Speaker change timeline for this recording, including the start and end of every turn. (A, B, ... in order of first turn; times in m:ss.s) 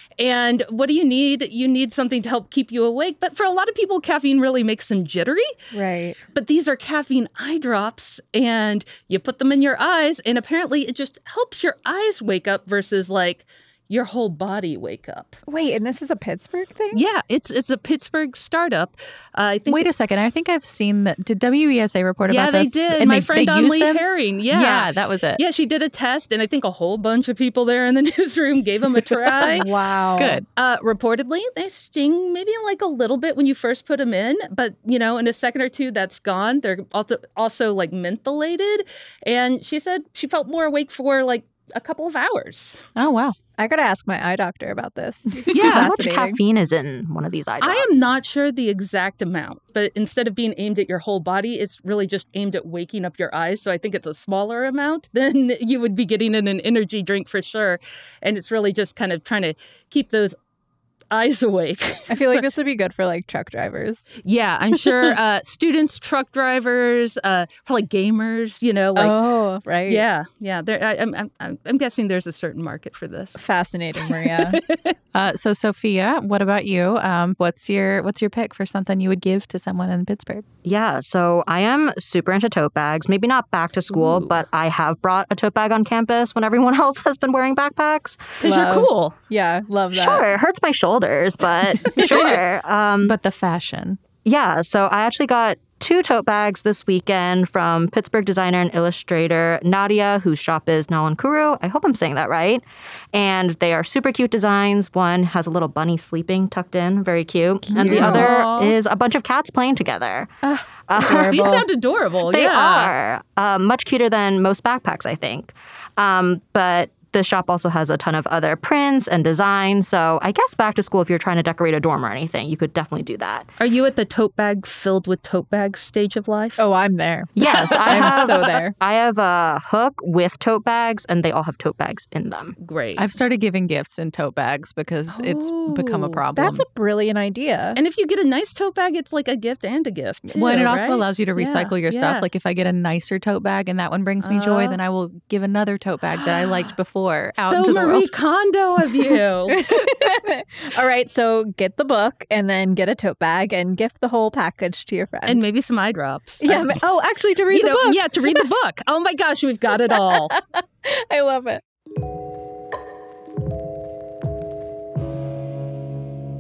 0:00.2-0:05.5 A
0:05.7-0:06.2 B
0:06.3-0:15.4 A
0:15.5-0:17.0 B
0:16.9-0:19.9 A
0:19.7-0:25.4 C
0:22.2-0:29.7 A
0:29.4-0:30.4 B
0:29.5-0:30.4 C
0:30.6-0:42.8 A
0:43.0-0:43.4 C
0:43.6-0:46.4 B
0:45.5-0:46.0 A
0:45.6-0:48.1 D
0:47.6-1:00.4 A
1:01.1-1:02.4 A
1:02.1-1:04.1 B
1:04.2-1:09.2 A
1:09.0-1:10.0 B
1:09.9-1:13.4 A
1:13.4-1:14.6 B
1:14.0-1:14.9 A
1:15.1-1:20.4 C
1:20.6-1:28.4 D
1:23.9-1:24.4 A
1:28.4-1:29.1 A
1:28.4-1:30.3 B
1:29.9-1:33.2 D
1:31.9-1:32.2 A
1:33.0-1:34.0 C
1:34.2-1:50.3 D
1:47.8-1:48.3 B
1:47.8-1:48.8 A
1:47.8-1:48.2 C
1:50.4-1:51.6 B
1:50.9-1:51.6 D
1:51.0-1:52.9 A
1:52.2-2:03.5 D
2:03.6-2:06.6 A
2:06.6-2:08.8 B
2:07.4-2:12.6 D
2:07.5-2:08.5 A
2:12.6-2:13.1 A
2:13.0-2:16.6 C
2:15.1-2:16.2 A
2:16.3-2:17.8 B
2:17.8-2:22.3 A
2:20.3-2:28.1 C
2:24.2-2:24.8 A
2:26.2-2:26.5 A
2:27.4-2:29.6 A
2:29.5-2:35.4 B
2:35.2-2:36.8 A
2:36.4-2:38.4 B
2:37.5-2:40.3 A
2:39.9-2:41.6 B